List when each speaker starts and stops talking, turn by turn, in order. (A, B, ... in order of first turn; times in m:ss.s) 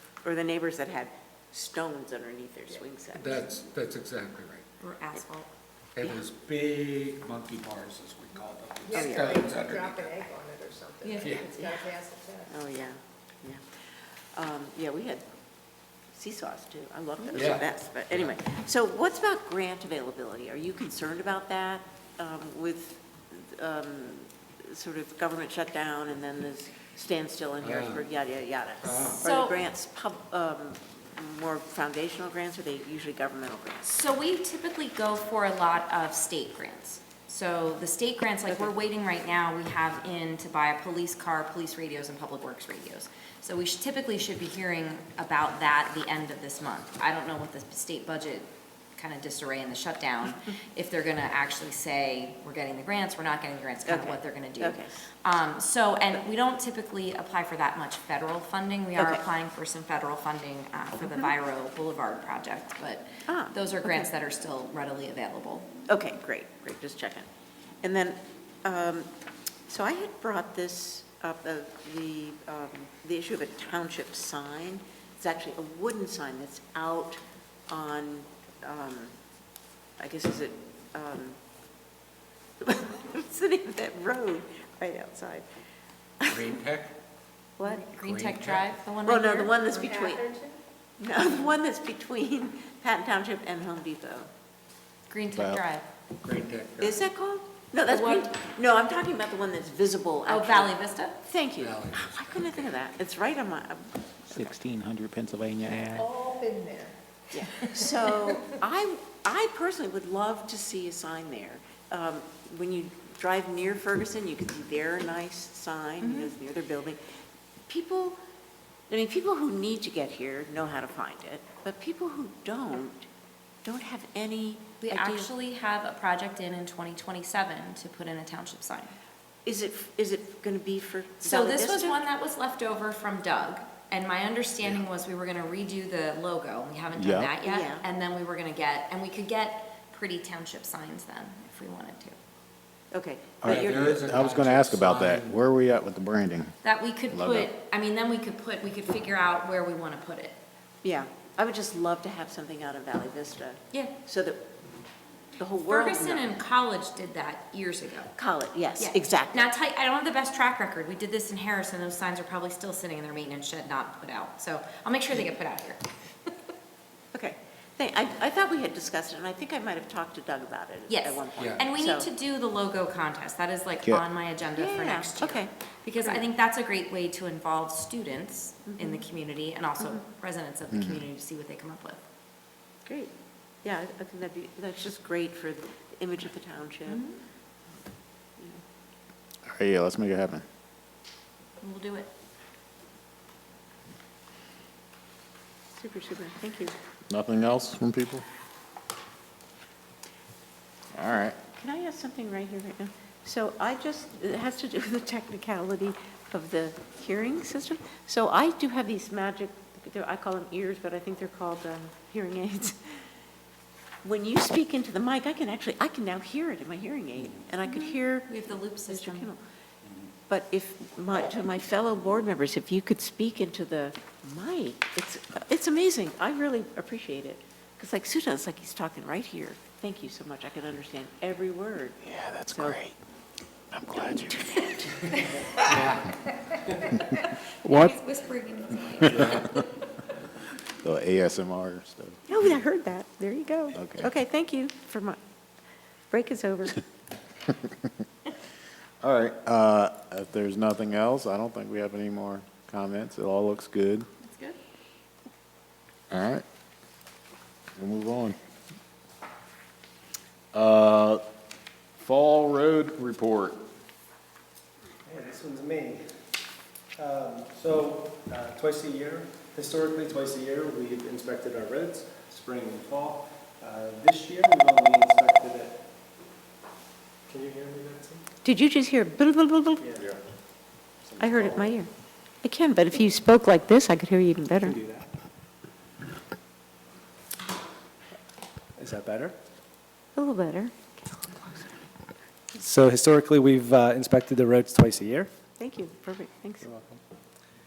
0:00.2-0:03.4 A
0:03.1-0:04.6 B
0:04.8-0:05.5 C
0:06.0-0:10.2 B
0:08.9-0:09.4 A
0:08.9-0:12.5 D
0:11.0-0:11.4 C
0:11.2-0:11.6 B
0:12.5-0:13.6 A
0:14.3-0:15.2 A
0:16.1-0:34.0 A
0:17.3-0:18.4 B
0:27.6-0:28.0 B
0:28.8-0:29.2 B
0:29.1-0:29.5 C
0:33.9-1:05.7 C
0:53.8-0:55.0 A
0:59.0-0:59.2 A
1:03.3-1:04.0 A
1:05.9-1:07.3 A
1:07.8-1:09.1 A
1:09.7-1:19.1 A
1:20.0-1:21.4 A
1:22.6-1:25.5 A
1:26.3-1:26.9 B
1:27.6-1:27.8 A
1:27.6-1:29.5 C
1:27.9-1:28.6 B
1:29.0-1:30.3 A
1:29.7-1:30.6 D
1:31.0-1:34.3 A
1:35.1-1:35.8 C
1:35.4-1:35.6 E
1:36.2-1:37.0 B
1:36.8-1:44.5 A
1:37.9-1:38.3 C
1:40.3-1:41.2 C
1:41.6-1:42.7 B
1:44.3-1:46.1 E
1:46.0-1:46.9 D
1:47.3-1:57.1 A
1:56.0-1:56.3 C
1:57.7-1:58.2 A
1:58.9-2:03.1 A
2:03.6-2:05.3 A
2:04.8-2:08.9 C
2:09.4-2:12.0 A
2:11.2-2:22.2 C
2:17.0-2:17.3 E
2:17.4-2:17.8 A
2:22.9-2:24.3 A
2:23.4-2:26.5 E
2:23.4-2:25.4 B
2:26.6-2:30.4 C
2:27.1-2:27.5 E
2:30.8-2:34.4 A
2:35.4-2:36.3 A
2:35.6-2:38.1 C
2:38.2-2:39.5 A
2:38.8-2:46.3 C
2:47.1-2:52.1 A
2:50.9-3:02.0 C
2:51.4-2:51.6 B
2:54.5-2:55.5 A
2:58.7-2:59.0 A
3:00.7-3:01.0 E
3:02.8-3:03.1 A
3:03.6-3:07.0 A
3:09.5-3:10.4 E
3:11.6-3:12.1 C
3:15.7-3:16.7 A
3:17.1-3:18.2 E
3:20.9-3:21.4 E
3:21.5-3:33.0 A
3:34.0-3:39.4 A
3:37.6-3:39.3 C
3:40.3-3:52.8 A
3:52.0-3:53.0 E
3:53.7-3:54.6 E
3:53.9-3:55.1 A
3:55.2-3:55.7 C
3:55.7-3:56.0 B
3:56.7-3:59.7 C
3:57.6-3:58.0 E
3:59.0-3:59.4 E
3:59.1-3:59.5 B
4:00.8-4:02.2 E
4:02.3-4:05.2 A
4:03.7-4:04.1 E
4:06.1-4:06.8 A
4:07.5-4:07.7 E
4:09.0-4:14.0 E
4:14.2-4:14.6 C
4:16.1-4:16.4 E
4:17.8-4:18.4 E
4:20.5-4:21.2 E
4:22.0-4:23.6 E
4:25.0-4:26.0 F
4:27.0-4:35.8 F
4:37.3-4:38.2 F
4:38.4-4:39.8 A
4:39.8-4:40.2 F
4:41.0-4:41.8 F
4:41.2-4:41.9 A
4:42.4-4:44.8 A
4:44.6-4:45.2 F
4:48.8-4:49.4 F
4:50.2-4:51.8 A
4:52.5-4:55.3 F
4:55.6-4:56.7 A
4:56.6-4:57.0 F